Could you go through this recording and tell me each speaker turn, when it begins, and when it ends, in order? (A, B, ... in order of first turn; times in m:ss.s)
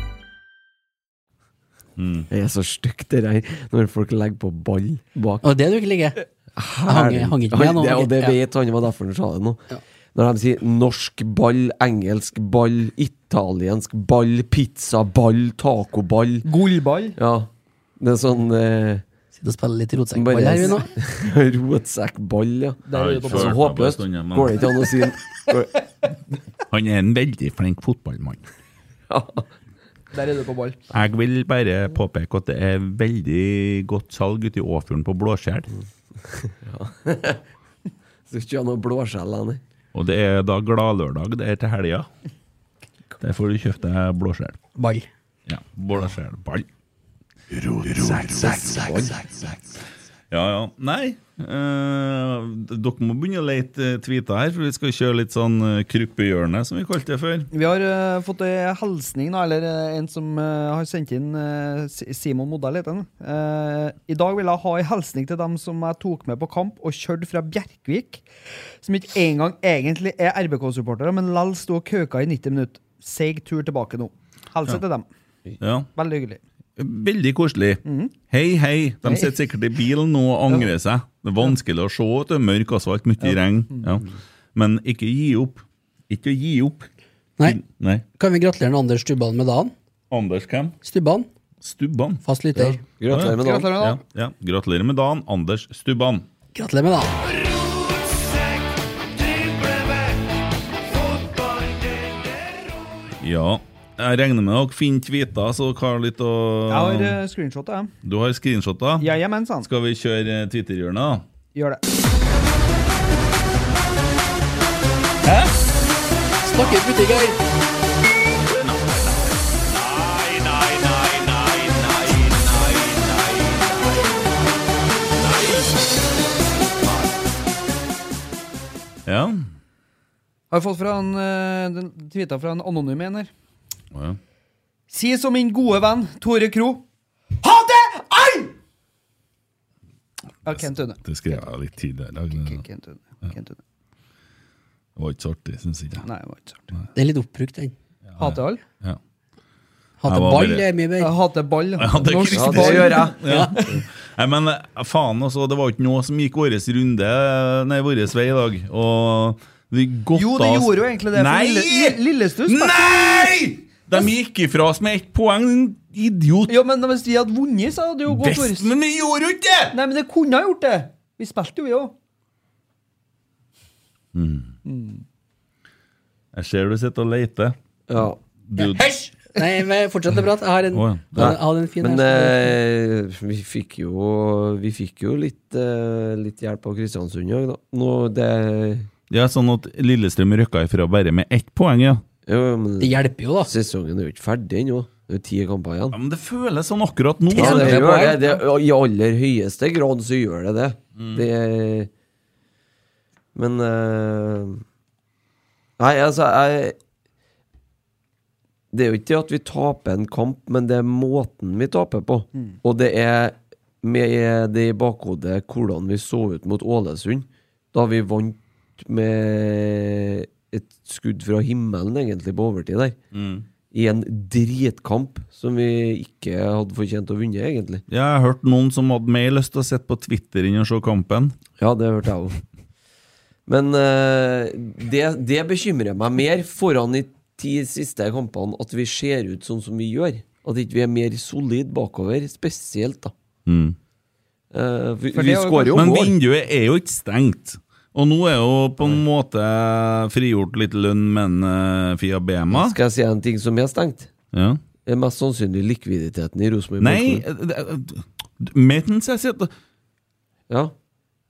0:02.0-0:02.3 A
0:02.3-0:05.4 B
0:05.4-0:06.2 C
0:06.6-0:16.5 B
0:06.9-0:08.4 C
0:16.4-0:17.2 D
0:17.2-0:19.0 B
0:19.4-0:20.9 C
0:20.1-0:25.7 B
0:22.9-0:23.6 D
0:22.9-0:24.8 A
0:26.7-0:28.4 A
0:29.1-0:29.5 B
0:30.1-0:30.8 D
0:30.9-0:35.7 A
0:36.3-0:37.4 B
0:38.3-0:39.6 B
0:39.9-0:42.1 A
0:43.2-0:44.6 A
0:44.8-0:45.1 C
0:45.5-0:46.7 A
0:47.8-0:49.1 A
0:48.0-0:49.2 B
0:50.3-0:57.5 A
0:57.5-1:08.2 D
1:08.8-1:15.1 D
1:15.6-1:15.9 A
1:16.0-1:16.4 D
1:16.8-1:26.9 A
1:17.8-1:18.1 D
1:19.0-1:19.4 D
1:23.2-1:24.0 D
1:27.4-1:28.0 A
1:28.2-1:29.7 C
1:30.1-1:30.8 A
1:30.8-1:31.3 C
1:31.6-1:32.2 A
1:32.2-1:32.8 C
1:32.6-1:33.8 B
1:33.1-1:36.3 A
1:33.4-1:34.0 D
1:36.6-1:37.3 C
1:43.2-1:47.2 A
1:46.7-1:47.9 D
1:48.0-1:51.2 A
1:49.0-1:49.7 D
1:51.6-1:51.8 D
1:56.4-1:57.4 C
1:58.5-1:59.1 A
1:59.8-2:03.6 A
2:09.1-2:09.4 A
2:10.5-2:13.3 D
2:13.9-2:14.2 A
2:14.9-2:16.8 D
2:17.4-2:18.5 D
2:20.4-2:21.4 D
2:20.5-2:22.6 A
2:22.3-2:23.6 D
2:25.0-2:26.1 A
2:26.0-2:26.6 D
2:27.0-2:27.7 C
2:28.1-2:29.0 A
2:28.2-2:28.6 D
2:30.0-2:31.1 C
2:30.1-2:30.7 A
2:31.0-2:33.1 D
2:31.8-2:46.6 A
2:32.3-2:33.1 B
2:33.2-2:33.6 C
2:40.1-2:43.3 D
2:46.5-2:48.7 D
2:48.1-2:49.8 A
2:49.7-2:51.9 D
2:54.1-2:54.6 A
2:54.6-2:55.0 D
2:56.3-2:57.6 A
2:57.9-2:58.2 B
2:58.5-2:58.8 A
2:58.6-3:02.6 C
3:00.7-3:01.4 A
3:01.1-3:08.9 B
3:09.1-3:12.0 A
3:12.3-3:16.0 B
3:12.8-3:13.5 C
3:15.9-3:17.8 A
3:17.3-3:18.4 C
3:17.3-3:21.9 B
3:21.0-3:21.2 A
3:23.4-3:24.6 B
3:25.8-3:26.8 B
3:28.7-3:43.0 B
3:43.1-3:43.4 A
3:43.7-3:47.8 B
3:47.9-3:51.3 A
3:51.6-3:52.4 B
3:53.5-4:03.1 B
4:03.4-4:03.8 A
4:04.5-4:06.1 B
4:05.1-4:06.1 D
4:05.7-4:12.8 A
4:12.5-4:14.1 B
4:14.3-4:14.6 A
4:14.8-4:17.2 B
4:16.8-4:19.5 A
4:20.5-4:20.7 B